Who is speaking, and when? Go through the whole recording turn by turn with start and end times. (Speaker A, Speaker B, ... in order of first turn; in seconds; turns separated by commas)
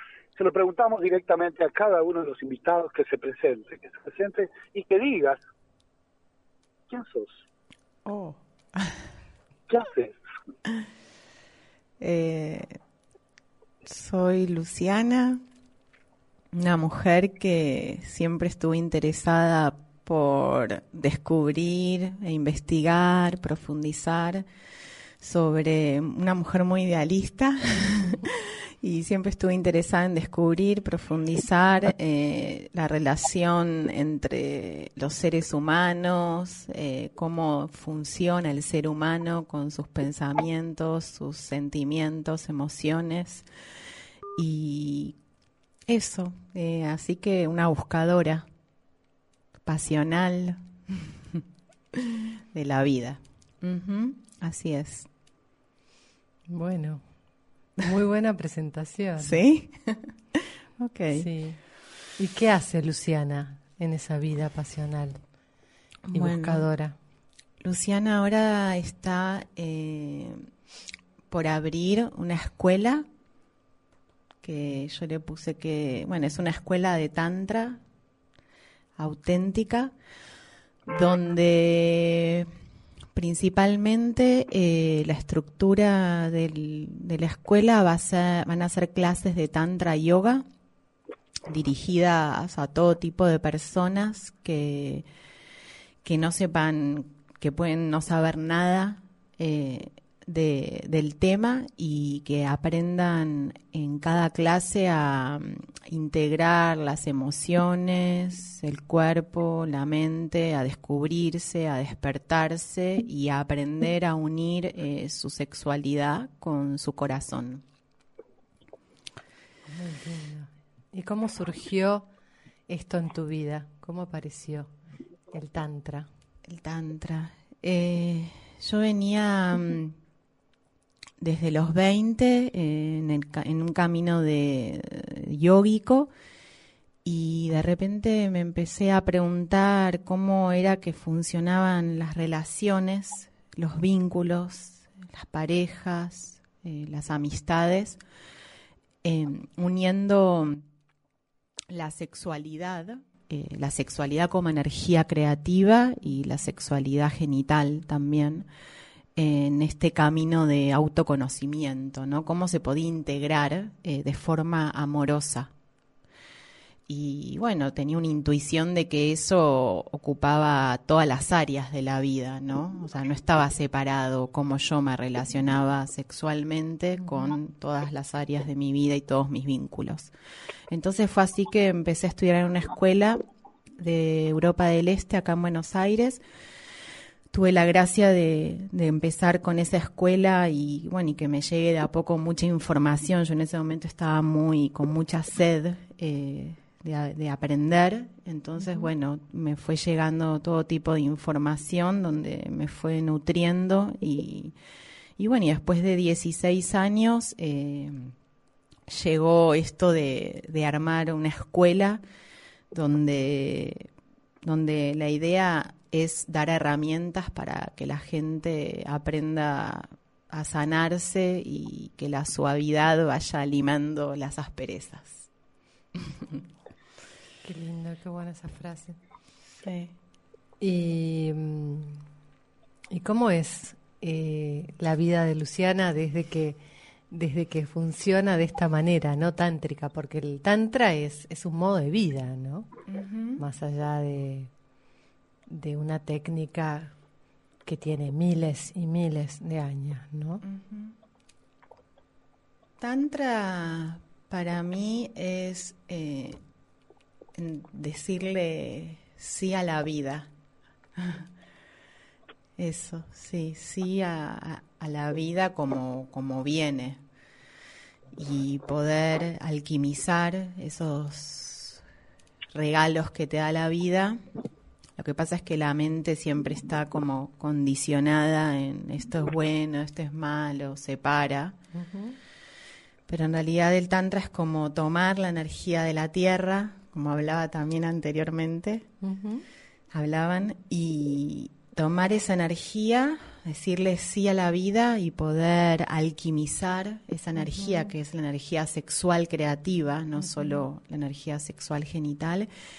Speaker A: 0.4-5.4, Speaker A: 6.9-7.4, Speaker B: 8.1-9.0, Speaker A: 9.7-10.2, Speaker B: 12.0-12.8, Speaker B: 13.8-15.4, Speaker B: 16.5-24.5, Speaker B: 25.2-43.5, Speaker B: 44.4-45.2, Speaker B: 45.9-48.5, Speaker B: 49.7-51.1, Speaker B: 52.5-55.1, Speaker C: 56.5-57.0, Speaker C: 57.8-59.4, Speaker B: 59.2-61.3, Speaker C: 61.1-61.6, Speaker C: 62.2-65.2, Speaker B: 66.1-66.7, Speaker C: 66.1-67.0, Speaker B: 67.6-70.5, Speaker B: 71.3-73.1, Speaker B: 74.4-77.8, Speaker B: 79.0-79.9, Speaker B: 80.9-82.5, Speaker B: 83.2-90.5, Speaker B: 91.5-95.1, Speaker B: 96.0-117.6, Speaker C: 119.7-122.1, Speaker C: 122.7-124.7, Speaker C: 125.3-126.1, Speaker B: 126.5-130.0, Speaker B: 131.2-136.1, Speaker B: 137.0-148.0, Speaker B: 149.0-150.6, Speaker B: 151.7-158.5, Speaker B: 159.2-165.5, Speaker B: 166.9-180.1, Speaker B: 180.7-183.2, Speaker B: 183.8-186.2, Speaker B: 187.3-204.6, Speaker B: 205.2-208.2, Speaker B: 208.9-212.0, Speaker B: 212.7-213.9, Speaker B: 214.4-225.3, Speaker B: 226.0-226.4, Speaker C: 227.4-229.0, Speaker B: 229.6-229.9, Speaker C: 230.6-232.0, Speaker C: 232.9-236.6, Speaker C: 237.1-242.7, Speaker B: 242.9-243.4, Speaker C: 243.4-244.5, Speaker C: 245.5-246.9, Speaker C: 247.7-250.4, Speaker B: 250.4-250.9, Speaker B: 252.8-256.4, Speaker B: 257.4-260.3, Speaker B: 261.0-261.3, Speaker B: 262.6-267.0, Speaker B: 268.2-271.8, Speaker B: 272.5-274.2, Speaker B: 275.0-281.6, Speaker C: 281.7-282.2, Speaker B: 283.1-288.9, Speaker C: 289.0-289.4, Speaker B: 289.9-302.5